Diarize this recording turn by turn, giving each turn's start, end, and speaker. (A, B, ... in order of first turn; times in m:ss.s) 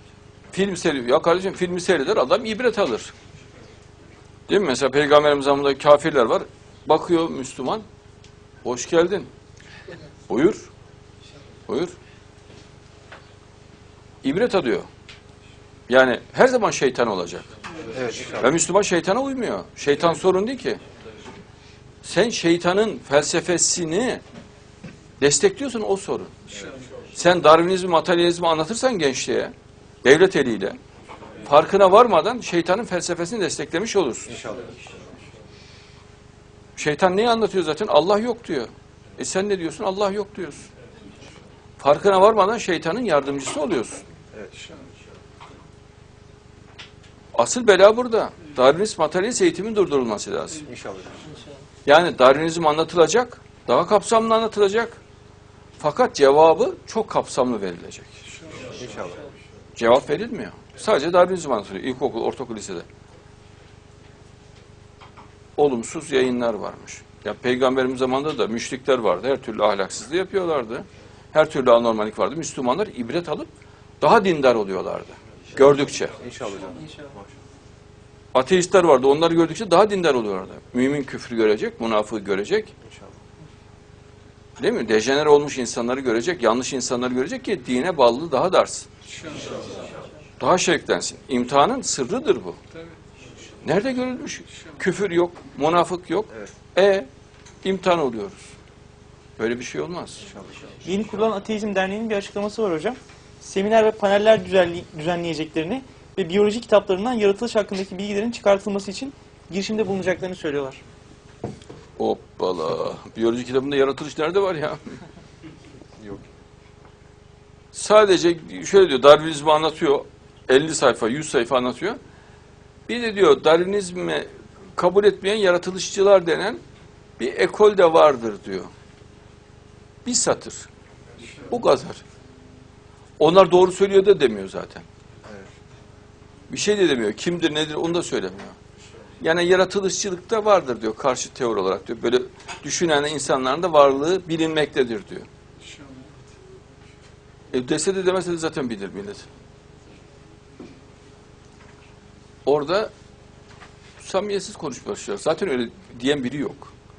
0:00.5-0:03.1 A
0:04.5-0:07.9 A
0:08.6-0:09.3 A
0:10.3-0:10.7 A
0:11.7-0:12.0 A
0:14.2-0:14.9 A
0:15.9-0:17.5 A
0:17.9-0:18.5 B
0:18.2-0:20.8 A
0:22.0-0:24.2 A
0:25.2-0:26.5 A
0:27.1-0:30.8 A
0:31.4-0:34.5 A
0:34.3-0:34.8 B
0:36.8-0:40.7 A
0:41.8-0:44.1 A
0:44.3-0:44.6 B
0:47.3-0:50.6 A
0:50.7-0:51.3 B
0:51.8-0:55.0 A
0:55.8-0:58.2 A
0:58.7-0:59.3 B
0:59.8-1:02.9 A
1:05.6-1:13.5 A
1:14.0-1:16.2 A
1:16.2-1:17.3 B
1:18.3-1:22.7 A
1:22.9-1:23.2 B
1:24.6-1:28.9 A
1:30.4-1:32.6 A
1:33.6-1:37.1 A
1:37.6-1:38.5 A
1:39.4-1:40.2 A
1:40.3-1:40.9 B
1:40.8-1:50.8 C
1:52.0-1:55.0 A
1:56.0-1:56.3 B
1:57.7-2:02.0 A
2:02.9-2:06.6 A
2:07.2-2:08.7 A
2:10.0-2:10.7 A
2:11.4-2:12.0 A
2:13.2-2:14.9 A
2:16.5-2:18.6 A
2:19.2-2:25.3 A
2:27.5-2:29.3 A
2:32.5-2:32.9 A
2:34.0-2:36.7 A